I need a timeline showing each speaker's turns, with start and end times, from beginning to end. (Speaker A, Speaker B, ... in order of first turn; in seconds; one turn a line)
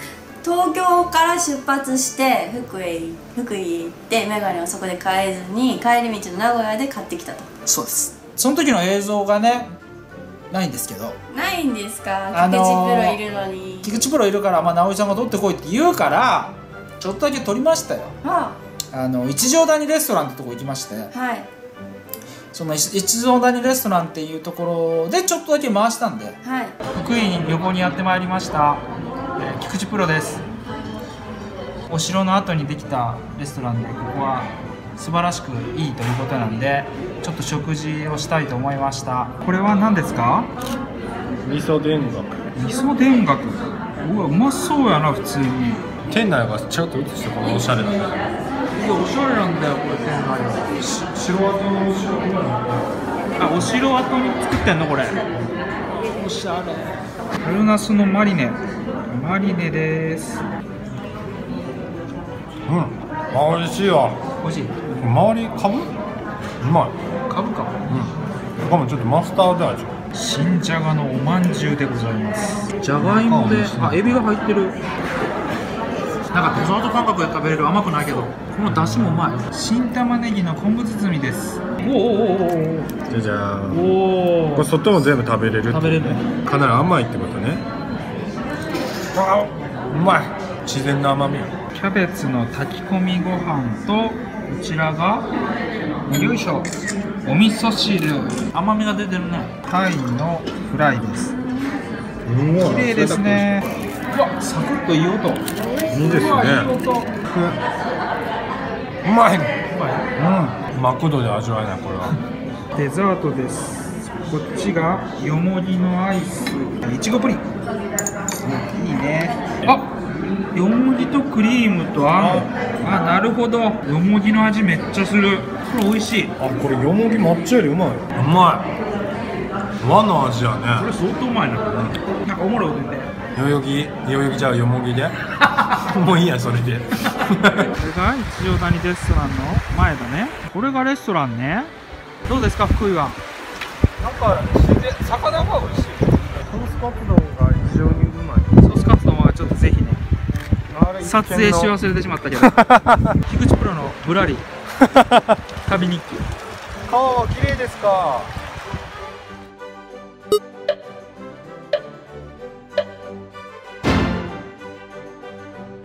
Speaker A: 0.4-7.5
Speaker B: 7.7-9.7
Speaker B: 10.5-11.2
Speaker A: 11.3-14.0
Speaker B: 12.3-13.2
Speaker B: 13.8-18.1
Speaker A: 18.2-18.6
Speaker B: 18.9-21.1
Speaker A: 21.1-21.5
Speaker B: 22.5-26.4
Speaker A: 26.4-26.7
Speaker B: 26.9-28.8
Speaker B: 29.4-30.4
Speaker B: 31.9-40.5
Speaker C: 41.4-42.4
Speaker B: 42.5-45.9
Speaker C: 46.1-48.1
Speaker B: 48.7-50.9
Speaker C: 50.8-52.9
Speaker B: 53.4-55.2
Speaker B: 56.0-60.4
Speaker C: 62.7-64.2
Speaker B: 64.4-64.9
Speaker C: 64.9-65.9
Speaker C: 66.6-67.0
Speaker B: 67.3-67.8
Speaker C: 67.9-70.0
Speaker B: 70.1-74.8
Speaker C: 72.9-74.1
Speaker B: 76.3-82.9
Speaker C: 78.7-79.2
Speaker C: 83.1-83.9
Speaker B: 83.7-84.7
Speaker C: 84.5-87.6
Speaker B: 85.7-86.2
Speaker C: 89.1-91.5
Speaker B: 91.7-95.3
Speaker B: 96.1-96.7
Speaker B: 97.2-101.3
Speaker C: 102.2-103.6
Speaker B: 102.6-107.1
Speaker C: 105.9-106.7
Speaker C: 107.3-107.6
Speaker C: 109.0-109.6
Speaker B: 109.7-110.1
Speaker C: 110.1-112.2
Speaker B: 112.7-117.5
Speaker B: 118.4-119.9
Speaker B: 120.5-126.3
Speaker C: 122.1-122.5
Speaker C: 126.4-128.7
Speaker C: 129.8-130.9
Speaker B: 130.7-133.1
Speaker C: 133.3-137.7
Speaker B: 137.7-141.7
Speaker B: 142.3-143.2
Speaker B: 144.0-146.2
Speaker C: 146.4-148.6
Speaker B: 148.6-150.0
Speaker C: 150.7-151.8
Speaker B: 151.0-152.6
Speaker C: 152.4-153.1
Speaker B: 153.2-154.4
Speaker C: 154.9-155.2
Speaker B: 155.7-156.3
Speaker C: 156.8-158.3